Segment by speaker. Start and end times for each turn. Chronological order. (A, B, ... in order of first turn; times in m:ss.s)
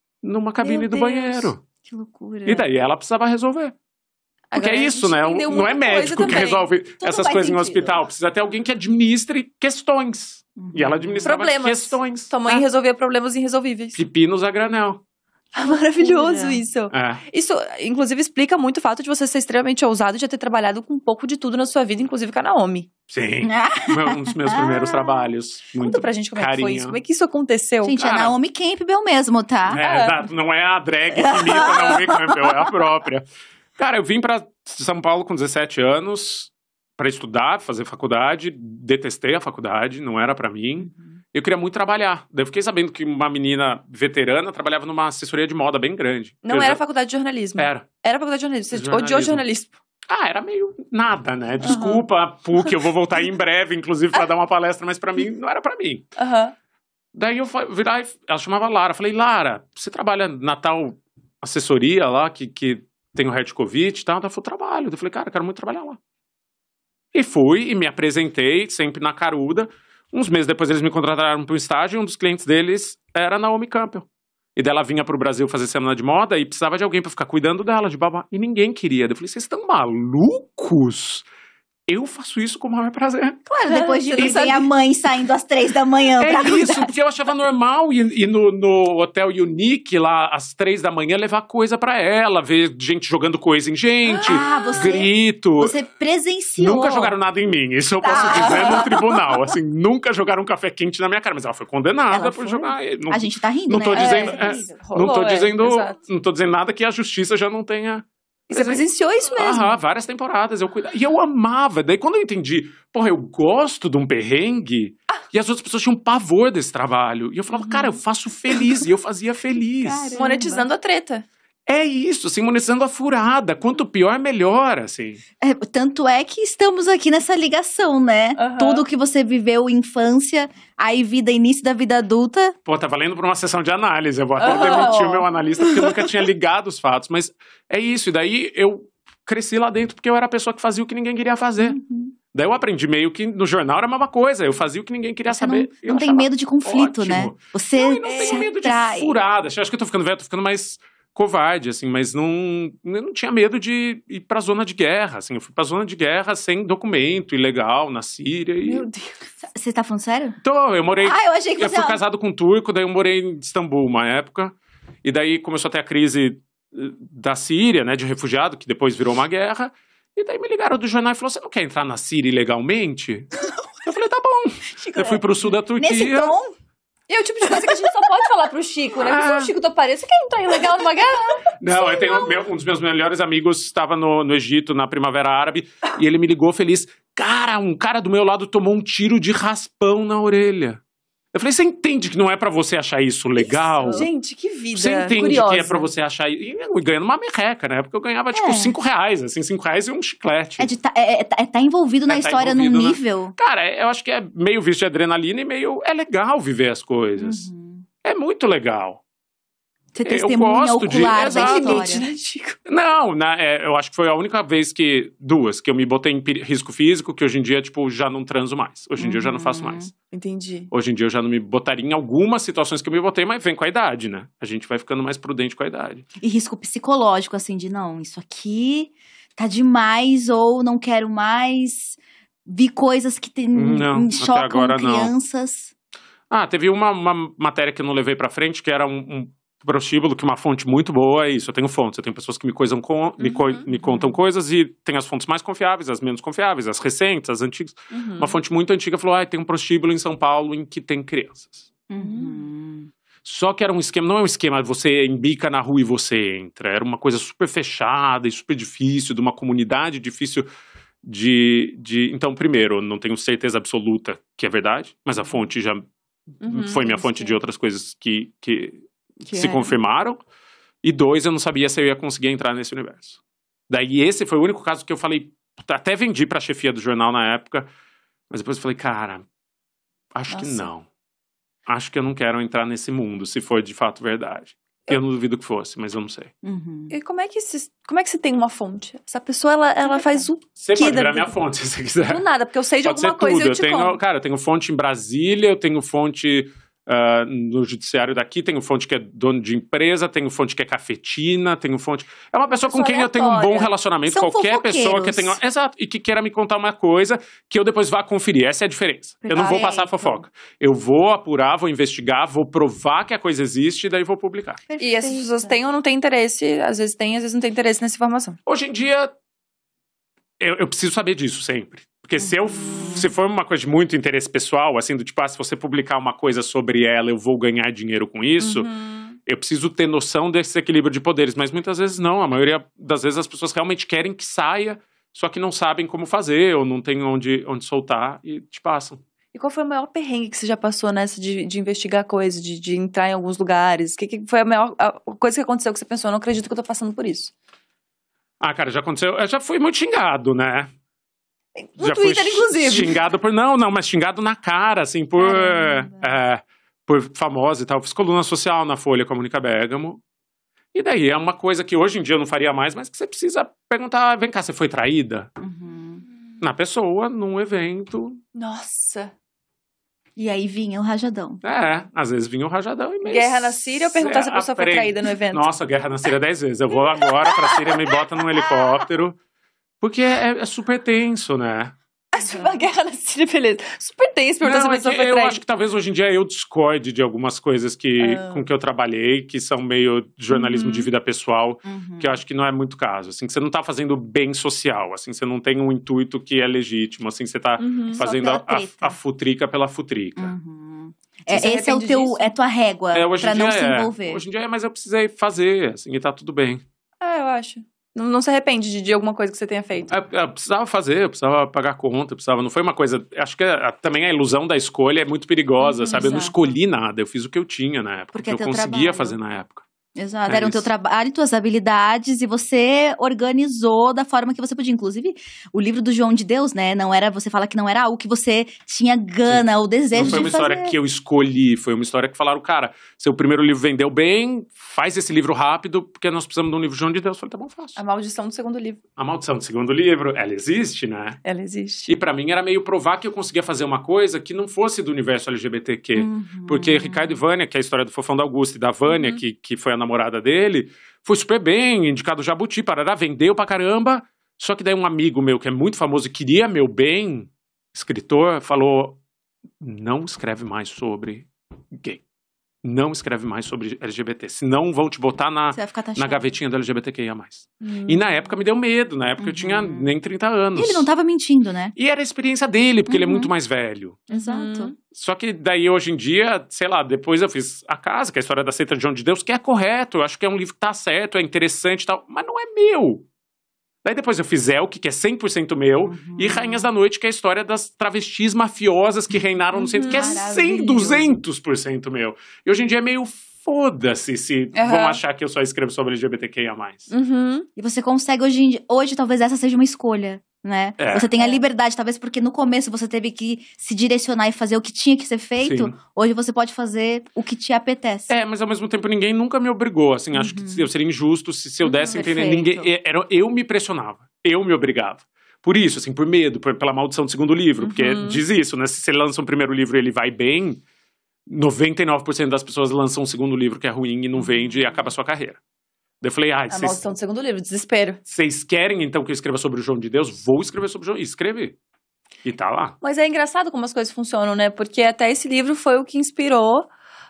0:00.2-0:01.6 A
0:00.6-0:01.5 B
0:01.9-0:02.6 C
0:02.2-0:02.5 B
0:02.5-0:03.8 A
0:04.5-0:06.7 B
0:04.5-0:12.3 A
0:07.0-0:08.0 C
0:10.6-0:11.4 C
0:11.2-0:14.0 B
0:13.9-0:15.0 A
0:15.5-0:22.9 B
0:15.6-0:16.6 C
0:16.9-0:17.2 A
0:23.1-0:27.0 A
0:23.4-0:25.3 C
0:25.8-0:28.2 B
0:27.8-0:29.8 C
0:28.0-0:28.3 A
0:29.7-0:46.8 A
0:29.8-0:30.2 B
0:31.2-0:32.7 C
0:46.4-0:49.8 B
0:47.6-0:47.9 A
0:48.7-0:49.4 A
0:50.1-0:56.1 A
0:51.6-0:52.0 B
0:56.2-0:56.6 B
0:57.1-1:06.0 A
1:07.1-1:21.3 A
1:21.9-1:23.4 A
1:23.5-1:27.0 C
1:23.7-1:24.7 B
1:24.2-1:24.5 A
1:26.2-1:35.8 A
1:34.1-1:35.0 B
1:34.2-1:37.1 C
1:36.6-2:00.1 A
1:38.0-1:39.3 C
1:38.2-1:38.9 B
1:42.1-1:44.8 C
1:43.9-1:46.0 B
1:48.5-1:49.8 B
1:57.6-1:58.0 B
1:59.8-2:00.7 C
2:00.2-2:01.2 B
2:01.7-2:05.2 A
2:05.4-2:12.6 C
2:08.4-2:08.8 B
2:12.7-2:21.8 A
2:14.4-2:15.3 B
2:14.4-2:14.9 C
2:15.6-2:16.0 C
2:21.6-2:22.2 C
2:22.3-2:38.9 A
2:25.3-2:29.1 C
2:28.0-2:28.5 B
2:38.6-2:39.2 B
2:39.4-2:40.4 C
2:40.4-2:53.3 A
2:41.0-2:42.0 C
2:53.8-2:56.4 A
2:54.9-2:55.2 C
2:55.8-2:56.5 C
2:57.1-3:02.2 B
2:59.0-2:59.5 A
3:01.6-3:10.8 A
3:11.3-3:14.1 A
3:13.4-3:14.1 C
3:13.9-3:15.9 B
3:14.7-3:20.7 A
3:18.3-3:18.8 C
3:20.6-3:23.4 C
3:22.1-3:27.5 A
3:27.2-3:27.9 C
3:28.0-3:29.0 A
3:30.0-3:32.1 C
3:30.0-3:31.9 A
3:31.1-3:32.6 B
3:32.7-3:39.9 A
3:39.0-3:39.9 C
3:40.1-3:40.7 B
3:40.7-3:46.0 A
3:46.2-3:55.7 C
3:53.5-3:55.1 A
3:56.3-4:11.7 A
4:03.2-4:03.7 B
4:03.8-4:04.2 C
4:07.9-4:08.4 B
4:11.9-4:12.9 C
4:12.0-4:12.5 B
4:13.2-4:20.5 A
4:21.0-4:25.9 A
4:26.4-4:27.4 B
4:26.4-4:30.2 A
4:29.3-4:29.8 C
4:30.8-4:37.7 A
4:38.3-4:39.3 A
4:40.1-4:40.9 A
4:40.3-4:40.7 B
4:41.7-4:46.3 A
4:46.4-4:47.0 C
4:46.9-4:51.3 B
4:49.8-4:50.3 C
4:50.6-4:52.2 A
4:52.1-4:54.0 B
4:52.8-5:14.6 A
5:02.7-5:03.7 B
5:04.1-5:05.4 C
5:09.3-5:09.9 B
5:09.3-5:09.9 C
5:14.7-5:15.6 C
5:14.8-5:18.4 B
5:18.5-5:19.1 A
5:20.4-5:28.7 A
5:22.6-5:23.0 B
5:22.6-5:23.0 C
5:28.4-5:29.2 B
5:29.3-5:39.0 A
5:39.3-5:47.3 B
5:48.4-5:50.7 A
5:51.6-5:53.0 B
5:51.8-6:00.0 A
5:55.3-5:55.8 B
6:00.7-6:05.3 A
6:05.4-6:06.0 C
6:06.4-6:08.2 A
6:08.4-6:09.1 B
6:10.2-6:11.4 C
6:11.4-6:19.2 A
6:13.0-6:15.5 B
6:17.0-6:18.8 B
6:19.8-6:21.8 A
6:22.1-6:25.4 B
6:22.3-6:22.6 C
6:24.4-6:40.3 A
6:28.0-6:28.5 B
6:30.4-6:30.9 B
6:31.6-6:32.2 C
6:37.6-6:38.1 B
6:37.9-6:39.0 C
6:40.2-6:44.2 C
6:41.3-6:42.3 B
6:42.9-6:46.6 A
6:47.0-6:49.9 B
6:49.9-6:59.7 A
6:55.6-6:56.3 B
6:55.9-6:56.4 C
6:58.1-6:59.2 C
7:00.0-7:10.8 C
7:00.3-7:00.7 A
7:09.3-7:17.8 A
7:17.8-7:18.8 B
7:19.0-7:21.2 A
7:21.2-7:21.9 B
7:21.9-7:39.0 A
7:26.0-7:27.2 C
7:28.9-7:29.2 B
7:39.6-7:42.0 A
7:42.6-7:50.9 A
7:45.5-7:46.3 C
7:47.6-7:48.0 B
7:49.2-7:50.0 C
7:50.6-7:51.8 C
7:51.8-7:54.1 A
7:52.9-7:53.3 C
7:54.1-7:54.7 B
7:54.1-7:54.7 C
7:54.9-8:03.1 A
8:03.8-8:16.9 A
8:05.9-8:06.7 C
8:09.6-8:11.2 C
8:09.6-8:10.2 B
8:14.5-8:15.0 B
8:16.9-8:17.5 B
8:17.6-8:28.2 C
8:20.8-8:21.1 A
8:25.4-8:25.8 A
8:28.1-8:40.6 A
8:30.1-8:30.7 C
8:31.6-8:32.1 B
8:31.9-8:32.7 C
8:37.6-8:38.2 B
8:41.3-8:45.4 A
8:44.2-8:44.7 C
8:46.0-8:46.8 A
8:46.5-8:48.0 B
8:48.1-8:51.6 A
8:52.2-8:52.8 A
8:52.8-8:56.7 B